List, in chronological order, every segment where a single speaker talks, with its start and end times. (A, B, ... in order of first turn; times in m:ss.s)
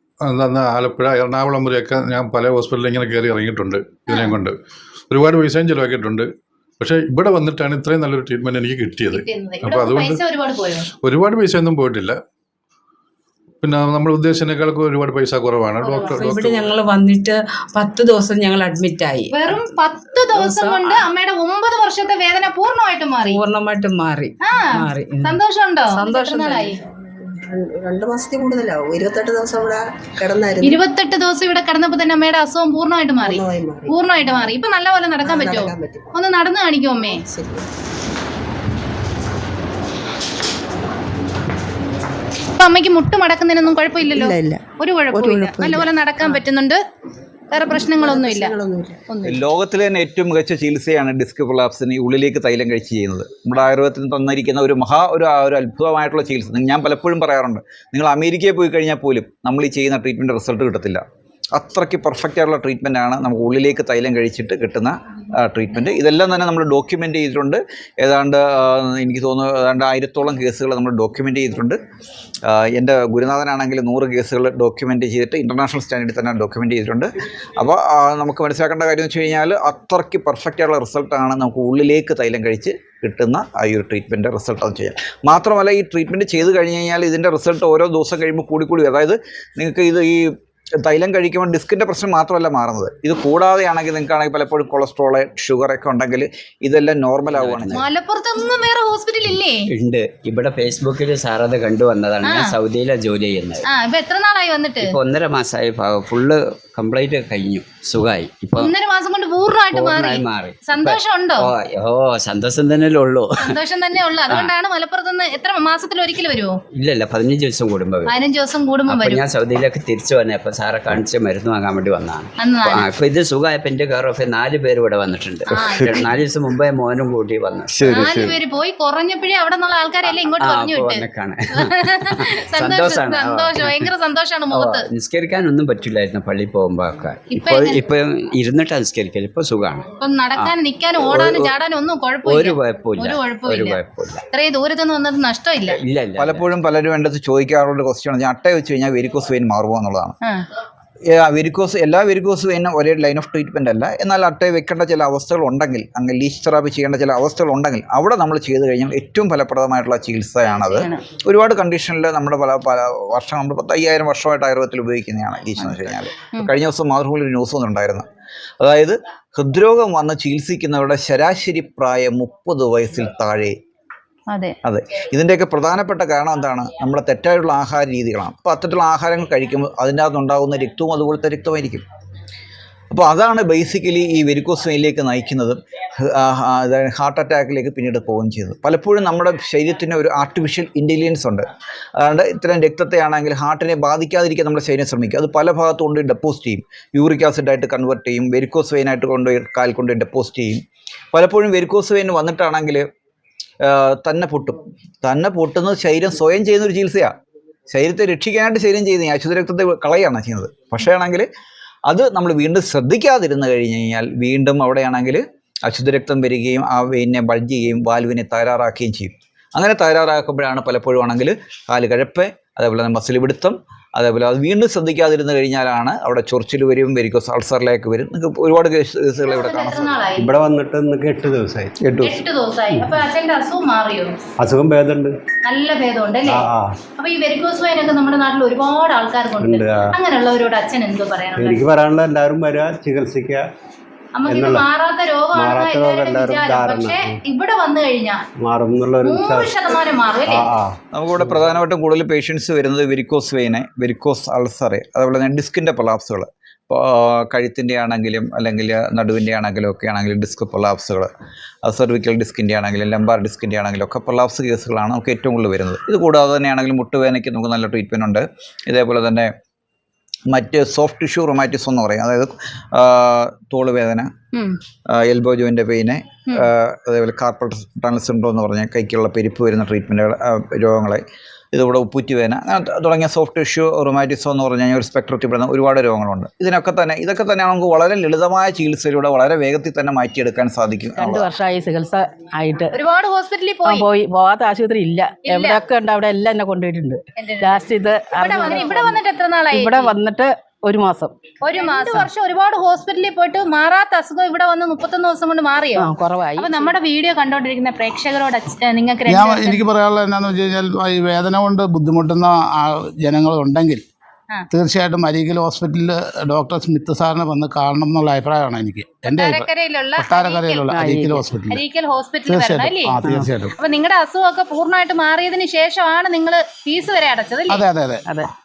0:00.2-0:04.5 A
0:04.1-0:04.4 B
0:05.1-0:06.2 A
0:06.8-0:10.2 A
0:09.1-0:10.8 B
0:11.0-0:12.2 A
0:13.6-0:16.7 A
0:15.9-0:21.1 C
0:19.3-0:23.4 B
0:23.1-0:26.7 C
0:24.4-0:26.8 B
0:26.8-0:30.8 D
0:30.6-0:37.2 B
0:33.2-0:34.0 D
0:35.2-0:36.1 D
0:37.0-0:37.7 D
0:42.6-0:46.8 B
0:44.2-0:45.9 D
0:47.5-0:49.4 B
0:47.7-0:49.0 D
0:49.2-1:01.0 E
1:01.5-1:11.8 E
1:12.5-1:30.3 E
1:30.8-1:37.8 E
1:37.2-1:37.9 F
1:37.7-1:39.7 B
1:39.7-1:43.6 F
1:42.2-1:42.5 B
1:43.7-1:44.9 B
1:44.8-1:48.7 F
1:48.6-1:51.5 B
1:49.7-1:53.6 F
1:53.4-1:56.5 B
1:54.3-1:54.5 F
1:56.7-1:58.2 F
1:58.1-1:59.2 B
1:58.9-2:08.1 F
2:02.4-2:02.9 B
2:05.5-2:06.0 B
2:05.6-2:06.1 G
2:07.7-2:08.4 G
2:07.8-2:14.8 B
2:10.0-2:13.9 F
2:14.5-2:21.5 F
2:17.3-2:17.8 B
2:20.0-2:23.8 B
2:22.2-2:24.2 F
2:24.3-2:25.8 B
2:25.6-2:26.5 F
2:26.2-2:30.1 E
2:31.2-2:48.0 E
2:40.4-2:41.0 B
2:45.6-2:46.5 B
2:48.6-2:53.5 E
2:54.3-2:54.6 B
2:54.6-3:01.8 E
3:02.9-3:11.4 E
3:12.0-3:20.6 E
3:21.1-3:22.8 E
3:23.6-3:27.1 E
3:27.7-3:31.2 E
3:31.9-3:50.1 E
3:49.2-3:50.3 B
3:50.2-3:52.2 G
3:52.0-3:54.2 B
3:52.7-3:53.0 G
3:54.4-3:55.1 G
3:55.4-4:01.6 B
3:56.2-3:56.8 G
3:59.4-4:00.0 G
4:01.4-4:03.5 G
4:04.1-4:08.2 B
4:04.2-4:04.7 G
4:05.3-4:07.2 G
4:08.4-4:11.6 G
4:09.0-4:10.5 B
4:10.9-4:21.1 E
4:21.6-4:29.3 E
4:30.3-4:34.1 E
4:34.9-4:51.3 E
4:51.0-4:52.8 H
4:52.7-4:53.8 B
4:53.6-4:59.0 H
4:55.3-4:55.6 B
4:57.2-4:59.9 B
4:59.5-5:02.1 H
5:01.4-5:09.6 B
5:05.7-5:06.7 H
5:09.0-5:13.8 I
5:14.5-5:21.6 I
5:19.1-5:20.8 B
5:20.7-5:21.2 H
5:21.5-5:23.0 B
5:22.2-5:23.6 I
5:23.6-5:27.6 B
5:27.5-5:28.0 I